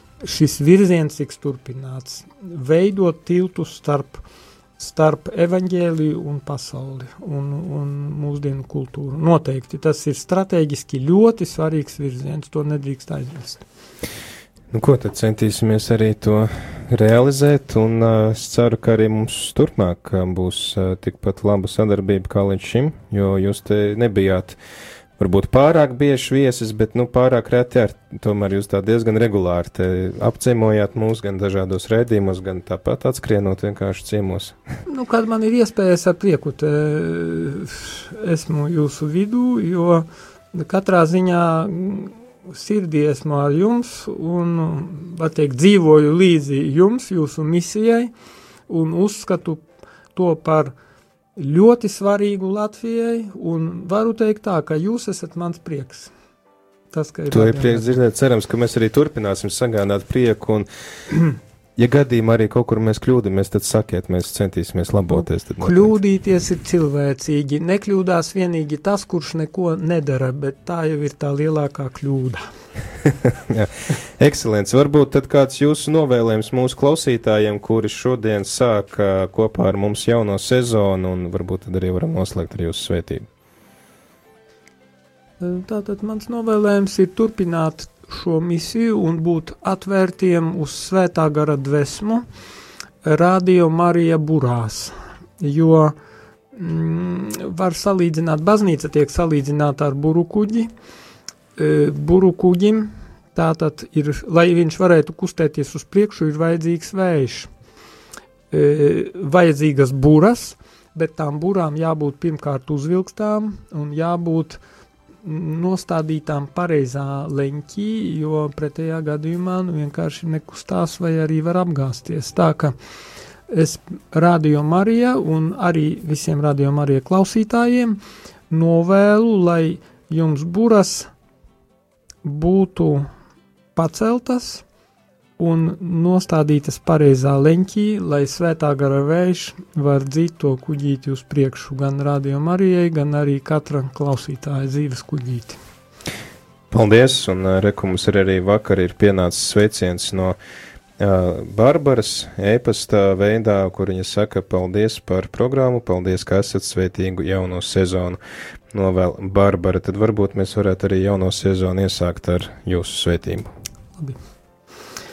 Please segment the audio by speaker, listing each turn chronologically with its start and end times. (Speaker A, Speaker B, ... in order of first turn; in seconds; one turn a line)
Speaker A: 0.2-4.2
Speaker A: 4.8-13.7
Speaker B: 14.7-24.6
Speaker B: 25.2-34.6
Speaker A: 34.9-48.1
Speaker A: 48.7-50.8
Speaker A: 51.4-56.1
Speaker A: 56.9-58.0
Speaker B: 57.3-60.7
Speaker B: 61.8-65.9
Speaker A: 65.1-72.4
Speaker B: 73.3-83.3
Speaker A: 85.4-92.2
Speaker A: 93.0-96.0
Speaker A: 96.5-100.7
Speaker A: 101.6-107.5
Speaker A: 108.5-114.6
Speaker A: 115.2-122.7
Speaker A: 123.5-128.0
Speaker A: 128.5-131.1
Speaker A: 132.2-133.1
Speaker A: 133.8-134.7
Speaker A: 135.4-145.6
Speaker B: 146.7-150.4
Speaker B: 151.0-158.2
Speaker B: 158.7-163.5